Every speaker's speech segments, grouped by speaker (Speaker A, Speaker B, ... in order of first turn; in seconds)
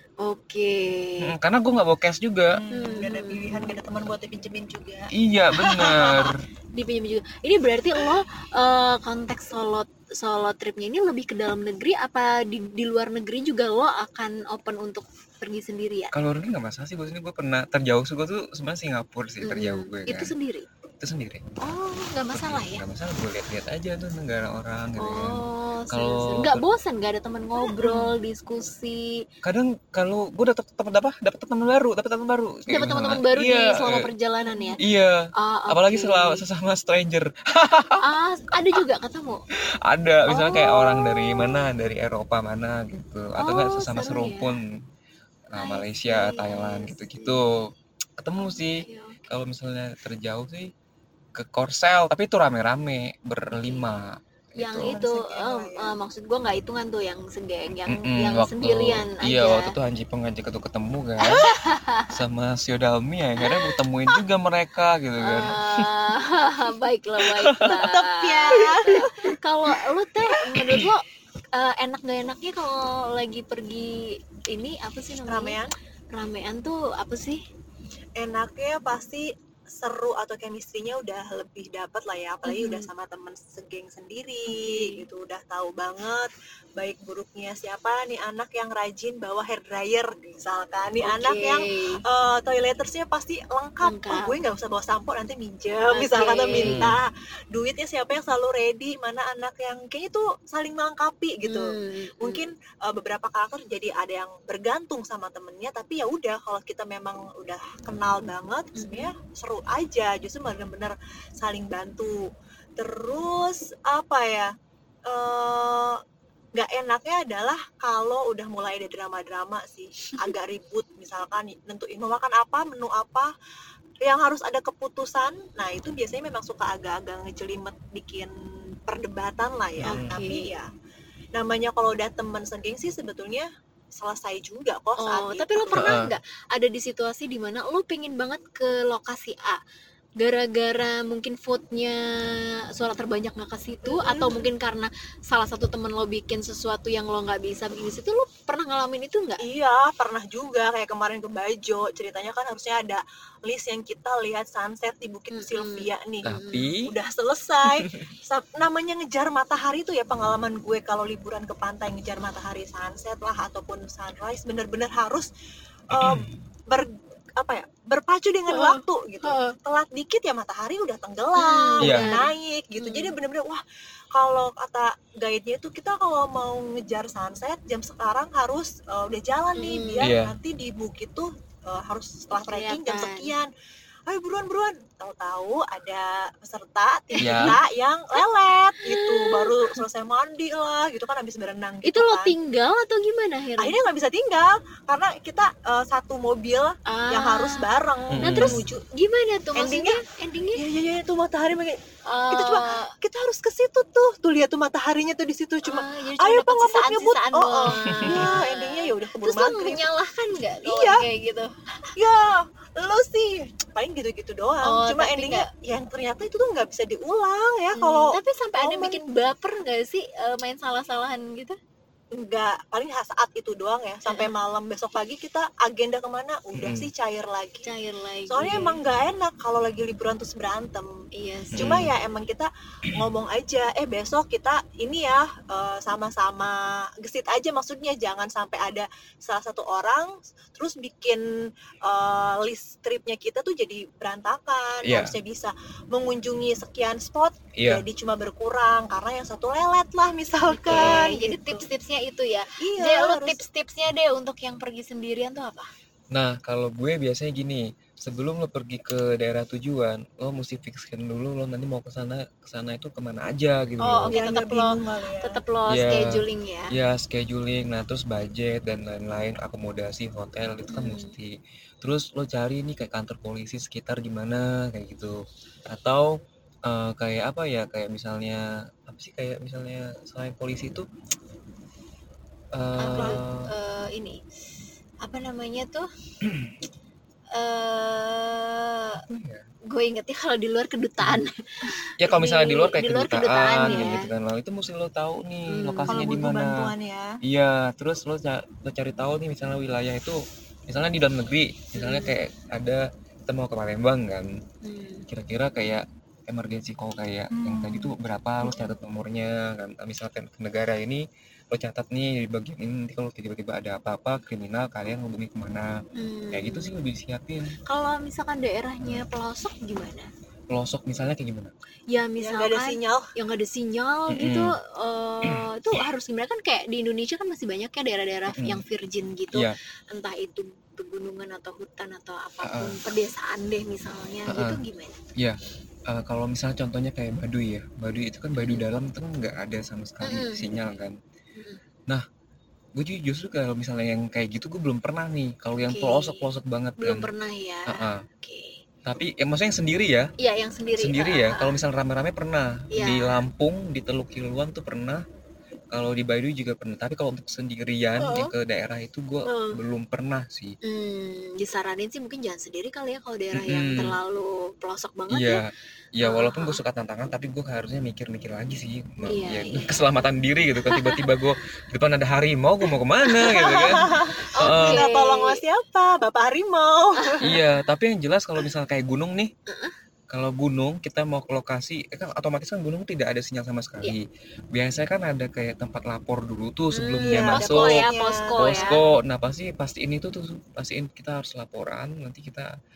Speaker A: 0.2-1.3, 2.7-3.8, 5.5-16.1, 19.4-20.7, 21.6-22.8, 25.0-29.2, 32.7-34.8, 35.4-36.4, 38.0-39.4, 40.3-41.7, 43.4-44.5, 45.5-47.4, 48.4-49.3, 53.5-53.9, 54.6-59.7, 61.2-62.1, 63.4-63.7, 65.2-75.6, 76.1-77.4, 82.4-82.9, 84.5-85.0, 91.0-92.0, 93.8-94.3, 95.9-96.8, 101.4-102.5, 108.7-109.1, 129.8-130.5, 135.0-139.6, 140.2-149.4, 155.3-156.7, 168.5-169.6, 171.4-173.1, 179.6-180.1, 182.5-183.3, 187.1-187.6, 188.8-189.8, 191.8-193.8, 196.8-200.6, 202.1-202.9, 205.6-211.5, 214.6-215.5, 217.7-221.6, 224.1-224.3, 227.6-228.8, 231.1-231.8, 250.5-255.7, 263.8-266.8, 270.7-271.1, 282.8-284.2, 285.0-285.9, 287.3-289.0, 289.7-294.1, 295.5-296.0, 301.8-302.1, 304.6-305.1, 308.4-308.8, 315.9-316.7, 317.7-320.1, 321.9-335.0, 338.3-338.7, 340.0-340.4, 341.3-341.6, 345.7-348.6, 350.2-351.6, 352.7-353.2, 359.2-359.6, 360.6-365.4, 366.0-366.6, 369.1-369.8, 370.6-371.1, 374.4-375.4, 377.0-377.3, 379.5-379.7, 386.7-388.8
Speaker B: 1.2-2.6, 5.1-6.4, 16.1-20.3, 21.0-21.8, 22.3-26.6, 29.4-34.1, 34.8-38.8, 39.8-44.7, 45.5-50.7, 51.3-55.0, 57.9-61.5, 62.1-65.9, 67.2-67.8, 70.5-70.9, 96.6-97.0, 129.8-130.1, 135.8-136.1, 156.2-156.9, 165.9-166.4, 171.8-172.1, 180.0-180.4, 187.2-187.6, 198.1-198.7, 207.9-208.2, 226.6-226.9, 231.5-231.9, 244.8-245.2, 247.6-247.8, 250.7-251.1, 256.1-264.2, 265.7-280.9, 282.5-283.5, 286.2-286.5, 289.1-289.4, 292.0-296.7, 297.2-304.3, 305.1-315.7, 316.3-317.6, 320.5-321.5, 324.1-324.5, 328.3-328.6, 332.4-332.8, 334.3-334.6, 335.2-341.0, 342.8-347.1, 347.7-348.0, 348.8-350.1, 350.7-355.0, 355.7-360.6, 363.3-364.0, 365.1-374.9, 377.2-379.3, 380.1-392.5
Speaker C: 2.5-5.1, 54.8-55.9, 67.6-69.3, 75.3-75.7, 78.2-114.5, 115.1-116.0, 116.5-123.3, 124.0-128.3, 128.8-130.7, 131.3-135.9, 143.8-144.4, 149.4-165.3, 165.9-173.6, 174.1-183.5, 184.1-192.3, 193.6-198.8, 199.6-200.0, 200.5-209.9, 210.6-211.1, 211.9-219.0, 222.1-227.7, 228.3-231.0, 231.6-241.2, 241.8-251.6, 252.6-253.4, 264.1-265.4, 282.9-283.2, 295.9-297.2, 307.3-307.9, 322.2-323.1, 358.0-358.3, 373.3-377.2, 387.0-388.8